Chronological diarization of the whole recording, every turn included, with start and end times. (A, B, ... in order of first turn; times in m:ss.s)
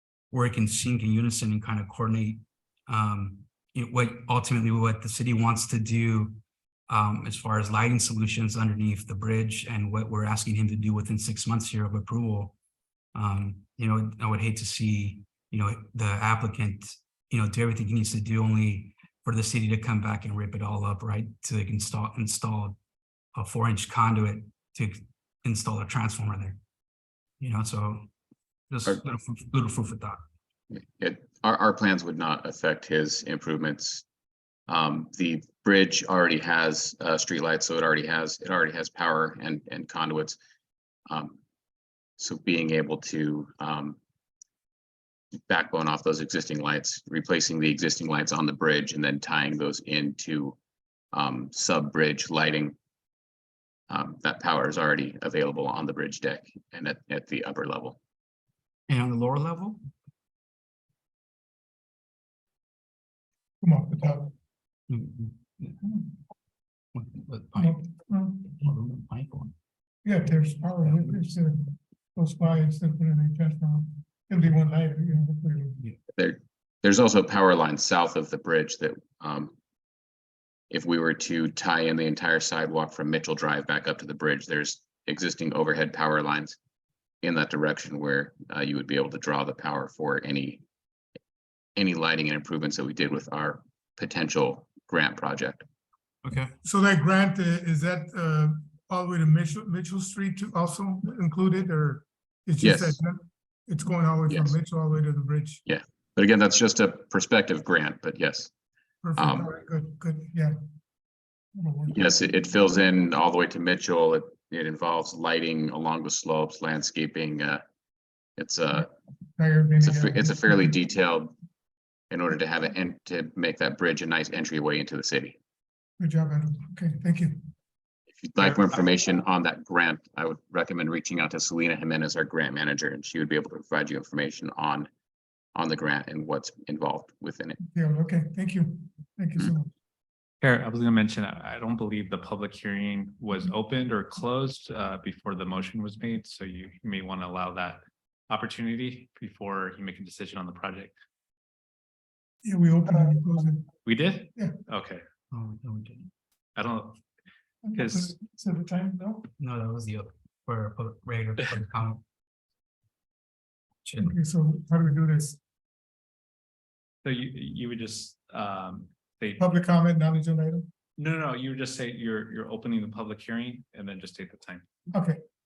0:00.3-0:12.5 A
0:13.1-0:22.8 A
0:23.3-0:26.6 A
0:27.4-0:28.1 A
0:28.7-0:30.2 A
0:30.7-0:34.0 B
0:34.7-0:40.4 B
0:41.1-0:41.4 B
0:42.2-0:44.0 B
0:45.5-0:50.6 B
0:51.1-0:52.7 B
0:53.9-0:58.0 B
0:58.9-0:59.8 A
1:03.6-1:04.3 C
1:04.9-1:05.8 A
1:06.9-1:07.8 A
1:07.6-1:08.7 C
1:08.6-1:09.5 A
1:10.0-1:15.8 C
1:16.1-1:19.5 B
1:20.7-1:26.6 B
1:27.2-1:30.6 B
1:31.8-1:35.6 B
1:36.2-1:36.5 A
1:36.6-1:45.6 C
1:42.6-1:43.0 B
1:44.3-1:44.5 B
1:45.6-1:48.5 B
1:49.0-1:50.5 C
1:49.2-1:49.5 B
1:51.6-1:52.2 C
1:51.9-1:57.6 B
1:58.4-1:58.9 B
1:59.4-2:00.7 C
1:59.8-2:01.4 B
2:02.1-2:05.4 B
2:06.0-2:07.4 C
2:08.1-2:14.9 B
2:15.5-2:17.6 B
2:17.6-2:19.7 C
2:20.4-2:30.9 D
2:32.4-2:33.7 C
2:33.8-2:35.0 D
2:35.3-2:36.1 A
2:36.6-2:37.0 D
2:37.6-2:39.3 C
2:37.7-2:38.1 D
2:39.4-2:42.0 A
2:43.8-2:44.1 A
2:44.0-2:45.4 C
2:47.0-2:49.4 D
2:49.4-2:50.7 C
2:51.0-2:54.6 D
2:54.9-2:55.2 C